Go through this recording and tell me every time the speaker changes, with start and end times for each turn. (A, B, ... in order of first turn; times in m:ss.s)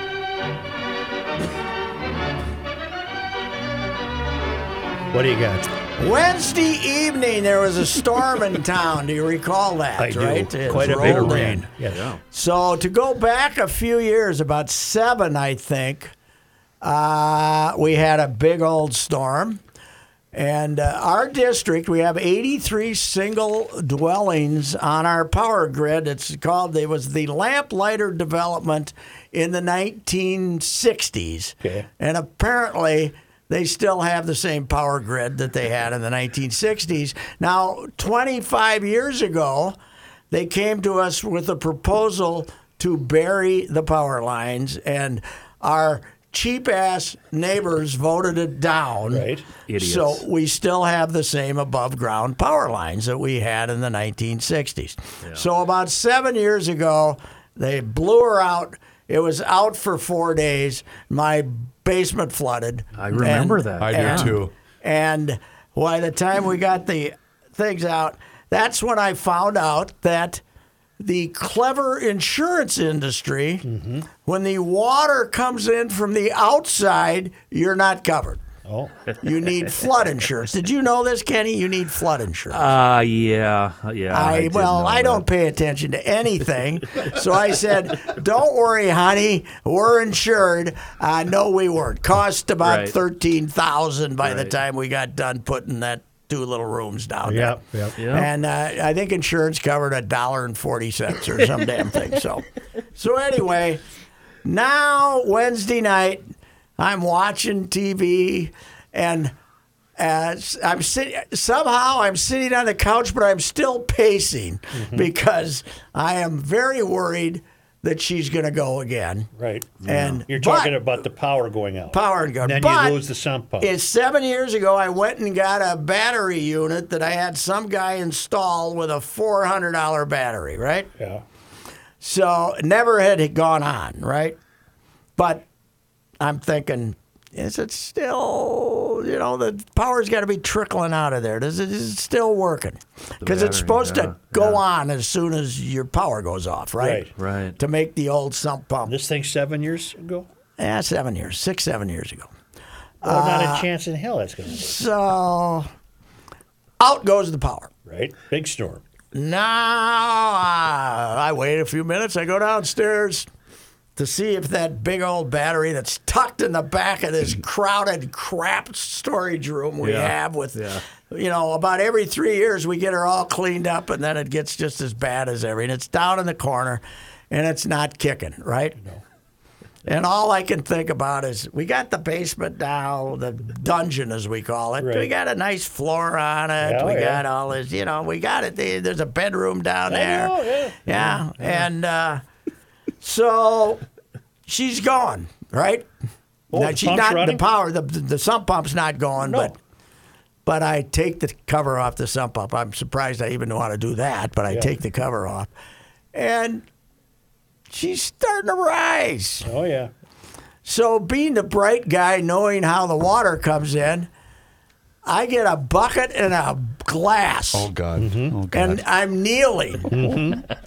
0:05.1-0:05.7 A
0:06.0-0:11.7 B
0:10.0-0:12.1 A
0:10.7-0:12.2 C
0:12.3-0:16.1 B
0:16.8-0:19.6 B
0:20.3-0:39.8 B
0:40.3-1:10.4 B
0:49.1-0:49.5 A
0:49.7-0:50.2 C
1:03.0-1:04.4 C
1:03.8-1:04.5 D
1:11.0-1:13.7 B
1:13.6-1:14.1 A
1:14.2-1:18.4 B
1:18.6-1:19.0 A
1:19.2-1:22.7 B
1:22.5-1:25.2 C
1:24.1-1:43.8 B
1:32.6-1:33.0 C
1:34.2-1:34.6 C
1:37.3-1:38.0 A
1:38.0-1:38.3 C
1:44.4-1:49.3 B
1:50.0-1:59.3 B
1:54.7-1:55.1 A
1:59.4-2:03.7 A
1:59.8-2:00.2 C
1:59.8-2:01.0 B
2:01.9-2:03.0 B
2:03.6-2:10.9 B
2:11.0-2:11.2 A
2:12.0-2:14.4 B
2:15.2-2:15.5 B
2:16.2-2:29.0 B
2:23.2-2:24.6 C
2:26.8-2:27.1 A
2:27.2-2:27.6 C
2:28.8-2:30.3 A
2:30.6-2:32.3 B
2:33.0-2:33.7 B
2:33.0-2:34.8 A
2:34.5-2:35.7 B
2:36.8-2:37.7 B
2:37.9-2:38.8 A
2:39.1-2:43.3 B
2:44.0-2:58.8 B
2:49.8-2:50.8 C
2:59.9-3:10.3 B
3:04.8-3:05.1 A
3:06.6-3:07.2 A
3:09.9-3:11.7 A
3:10.9-3:12.2 B
3:13.0-3:13.8 B
3:14.5-3:15.9 B
3:16.5-3:17.4 A
3:16.5-3:19.6 B
3:19.2-3:19.5 A
3:20.5-3:25.5 B
3:24.5-3:24.7 A
3:26.1-3:26.6 B
3:27.7-3:29.5 B
3:29.4-3:29.9 A
3:30.6-3:34.1 B
3:35.0-3:37.7 B
3:37.5-3:38.8 D
3:38.0-3:38.4 A
3:38.5-3:40.1 B
3:39.9-3:40.4 A